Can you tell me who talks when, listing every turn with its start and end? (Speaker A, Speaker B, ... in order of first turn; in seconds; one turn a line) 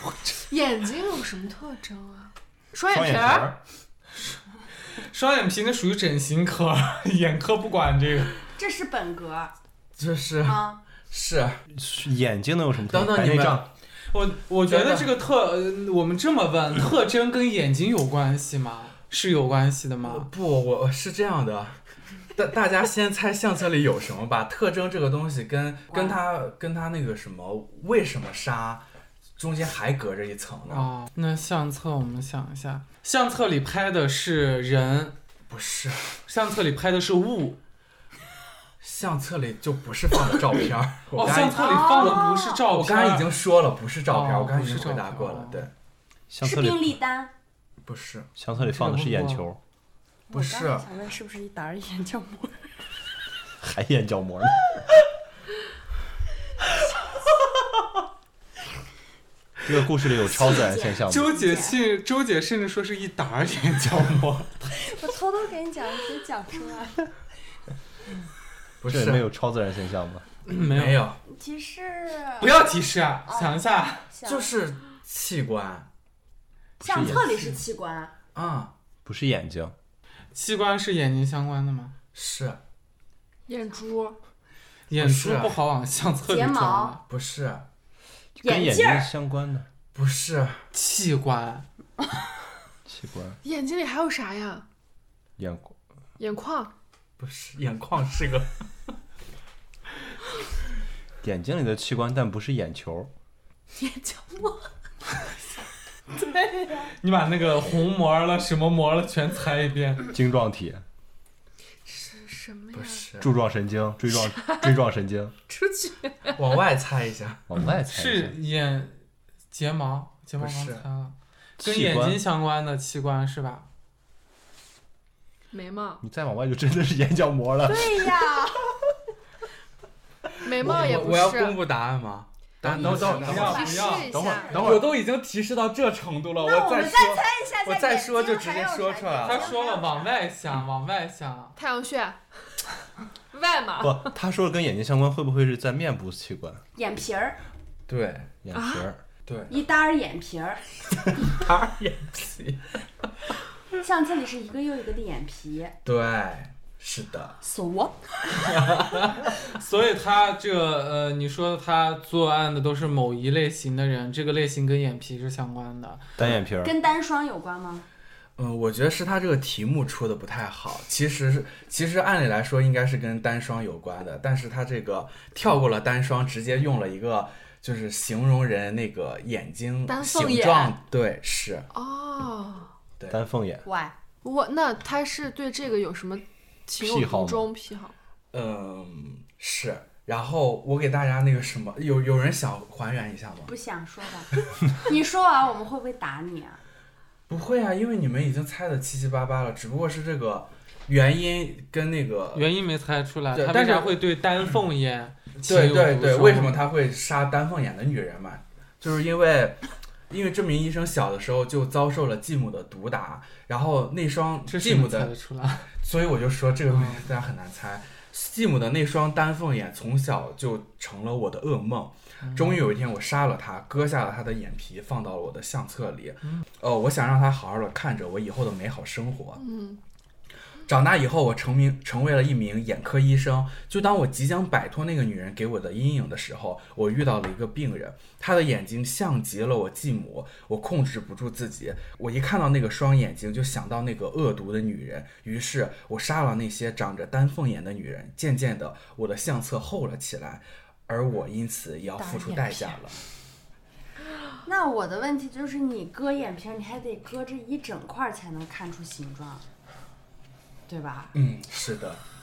Speaker A: 0.5-3.5
Speaker B: 2.9-3.6
Speaker C: 4.9-8.4
Speaker D: 8.5-9.5
Speaker E: 9.9-11.6
Speaker D: 10.4-10.8
Speaker B: 11.7-13.7
Speaker E: 12.9-13.6
Speaker C: 14.1-20.3
Speaker E: 14.7-15.1
Speaker E: 20.0-21.8
Speaker E: 22.3-30.9
Speaker D: 25.9-26.2
Speaker C: 30.7-35.1
Speaker E: 35.5-36.1
Speaker C: 36.2-37.6
Speaker E: 38.8-45.7
Speaker C: 41.1-43.4
Speaker D: 41.5-42.6
Speaker C: 44.1-45.6
Speaker B: 46.3-47.0
Speaker D: 46.4-47.3
Speaker E: 47.8-48.3
Speaker B: 48.4-49.6
Speaker C: 48.5-49.5
Speaker D: 50.3-52.8
Speaker E: 50.3-50.9
Speaker B: 53.6-54.6
Speaker B: 59.6-61.3
Speaker D: 60.3-61.8
Speaker C: 61.0-64.8
Speaker D: 64.8-67.1
Speaker E: 68.8-69.3
Speaker B: 68.9-70.2
Speaker C: 70.5-71.1
Speaker E: 70.5-71.2
Speaker D: 71.2-72.5
Speaker C: 72.4-74.1
Speaker D: 73.3-73.6
Speaker D: 74.1-74.5
Speaker E: 74.2-75.9
Speaker B: 76.8-77.5
Speaker D: 76.8-78.1
Speaker E: 76.9-77.3
Speaker E: 78.3-78.7
Speaker B: 79.0-79.7
Speaker C: 80.3-81.9
Speaker E: 82.1-82.6
Speaker A: 83.5-84.2
Speaker C: 84.9-87.0
Speaker E: 85.0-85.6
Speaker D: 86.2-87.0
Speaker E: 87.0-87.7
Speaker B: 88.4-89.7
Speaker D: 88.4-89.1
Speaker E: 89.9-90.6
Speaker C: 90.7-91.7
Speaker B: 92.9-93.4
Speaker A: 93.4-94.6
Speaker B: 95.4-95.7
Speaker A: 96.2-96.7
Speaker E: 97.2-98.5
Speaker B: 101.2-103.1
Speaker A: 103.7-104.7
Speaker C: 106.8-110.1
Speaker B: 110.1-110.8
Speaker A: 111.8-113.0
Speaker E: 112.7-113.3
Speaker B: 113.2-115.3
Speaker A: 114.2-114.7
Speaker A: 115.5-116.4
Speaker E: 116.3-117.4
Speaker B: 117.5-118.3
Speaker C: 117.8-119.0
Speaker C: 119.5-123.7
Speaker E: 120.4-120.8
Speaker B: 121.6-122.2
Speaker A: 125.5-126.0
Speaker B: 126.0-128.3
Speaker D: 127.6-128.7
Speaker A: 130.4-131.6
Speaker E: 130.5-133.8
Speaker C: 132.6-134.6
Speaker D: 132.8-134.8
Speaker A: 132.9-134.6
Speaker B: 134.1-134.9
Speaker E: 134.5-139.6
Speaker D: 136.4-140.1
Speaker C: 139.2-141.5
Speaker A: 141.6-142.2
Speaker A: 143.3-144.1
Speaker B: 143.8-146.6
Speaker D: 146.7-147.4
Speaker E: 147.9-148.3
Speaker B: 148.4-149.0
Speaker A: 148.5-148.8
Speaker E: 149.2-149.5
Speaker D: 149.5-150.8
Speaker E: 151.2-152.6
Speaker D: 153.8-155.8
Speaker E: 155.8-157.4
Speaker D: 157.4-158.5
Speaker E: 158.4-159.2
Speaker C: 159.2-166.1
Speaker B: 166.2-166.7
Speaker D: 166.6-167.8
Speaker E: 168.4-181.7
Speaker A: 179.9-180.8
Speaker A: 181.7-182.7
Speaker B: 183.1-183.6
Speaker D: 183.6-183.9
Speaker A: 184.2-187.9
Speaker B: 186.8-187.5
Speaker E: 188.3-193.5
Speaker D: 193.5-196.6
Speaker E: 197.3-202.5
Speaker C: 202.3-206.6
Speaker E: 203.3-204.0
Speaker E: 205.4-215.1
Speaker C: 214.5-215.7
Speaker E: 215.8-229.4
Speaker C: 216.7-217.0
Speaker C: 222.2-222.6
Speaker A: 229.4-229.8
Speaker E: 230.7-253.0
Speaker D: 252.0-252.8
Speaker D: 254.4-259.4
Speaker D: 260.7-261.1
Speaker E: 261.1-262.0